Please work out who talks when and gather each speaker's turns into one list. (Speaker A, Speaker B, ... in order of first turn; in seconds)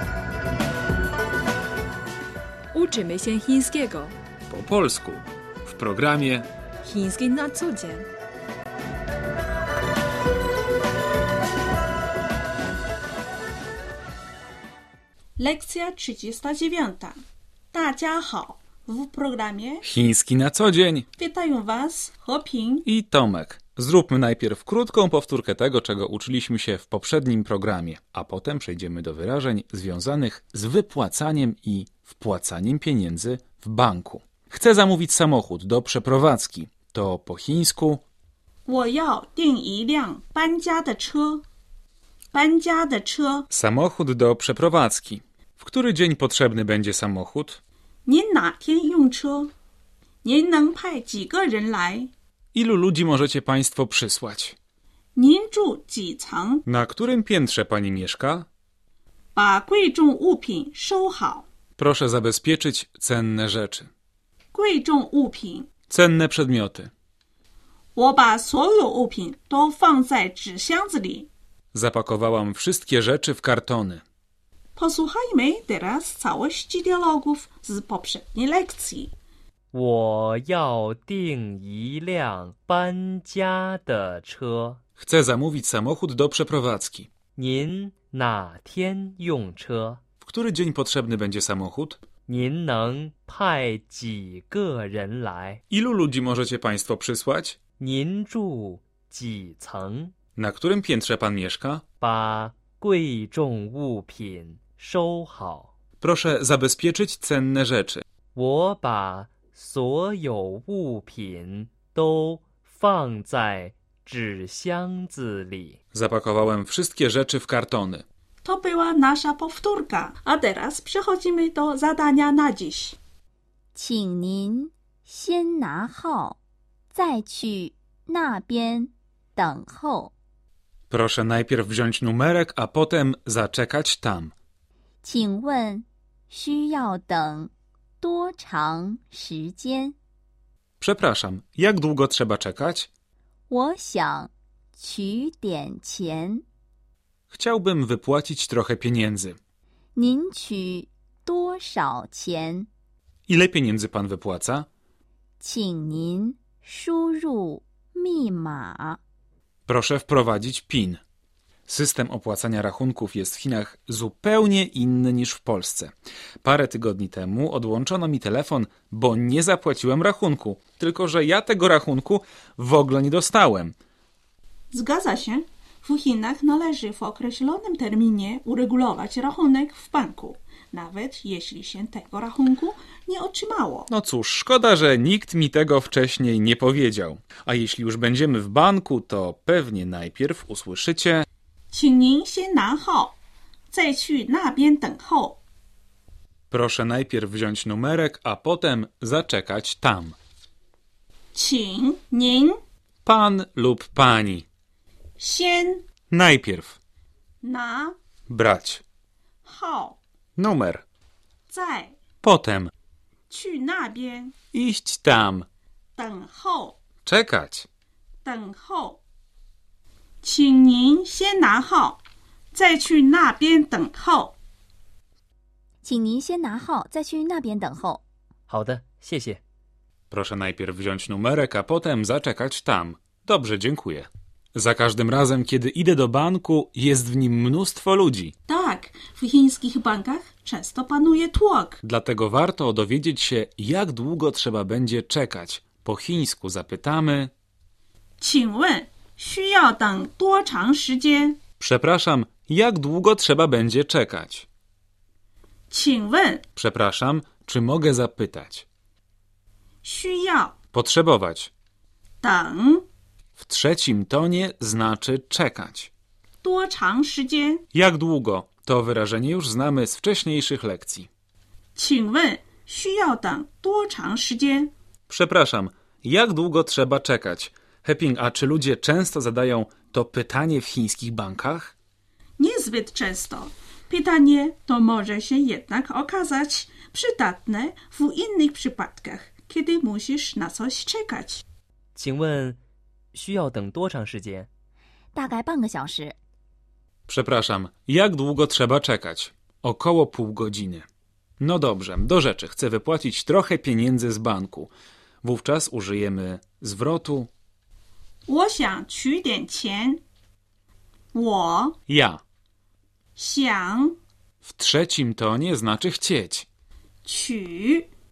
Speaker A: 2.7-4.2, 6.8-8.1
Speaker B: 4.5-6.5, 19.8-21.1, 22.9-38.0, 43.5-47.6, 52.5-54.6, 56.7-58.5, 61.8-63.9, 65.9-66.9, 71.7-74.0, 85.0-87.1, 90.2-92.0, 95.7-97.6, 100.4-101.8, 106.0-108.0, 115.9-118.0, 130.9-134.3, 140.8-142.9, 147.3-149.4, 153.3-154.7, 159.7-161.0, 161.7-173.8, 183.9-191.3, 196.5-200.2, 203.1-204.5, 206.1-206.8, 208.3-208.8, 210.4-210.8, 212.2-212.7, 214.5-215.5, 217.1-217.7, 230.1-238.3, 241.8-247.3, 251.6-254.5, 256.6-258.6, 260.7-261.5, 263.4-265.9, 267.7-271.1, 275.1-281.7, 297.1-300.9, 301.4-304.7, 305.2-307.3, 311.9-312.2, 314.4-316.5
Speaker C: 15.4-17.2, 17.7-19.8, 21.2-22.9, 38.7-41.4, 42.3-43.5, 48.1-49.5, 50.2-52.1, 55.2-56.6, 59.4-61.5, 64.5-65.7, 68.0-71.3, 74.8-79.1, 118.4-123.0, 174.7-183.9, 191.7-193.2, 193.7-195.4, 201.3-202.6, 205.2-205.8, 207.4-208.0, 209.4-210.0, 211.5-212.0, 213.3-214.3, 216.0-216.8, 218.2-219.0, 220.2-222.0, 222.5-224.4, 238.5-241.8, 248.2-251.4, 255.7-256.4, 259.8-260.6, 262.2-262.9, 266.4-267.6, 271.8-274.7, 282.4-291.4, 308.3-310.0, 311.1-311.8, 313.2-314.0, 317.0-317.9
Speaker D: 79.7-84.8, 87.4-90.0, 92.3-95.6, 97.8-100.1, 102.0-105.7, 108.3-115.8, 228.5-229.4, 291.9-292.6, 293.1-294.5
Speaker E: 123.8-126.4, 126.9-130.1, 135.0-140.0, 143.5-146.4, 150.0-152.7, 155.4-159.0, 225.8-228.0, 295.1-296.1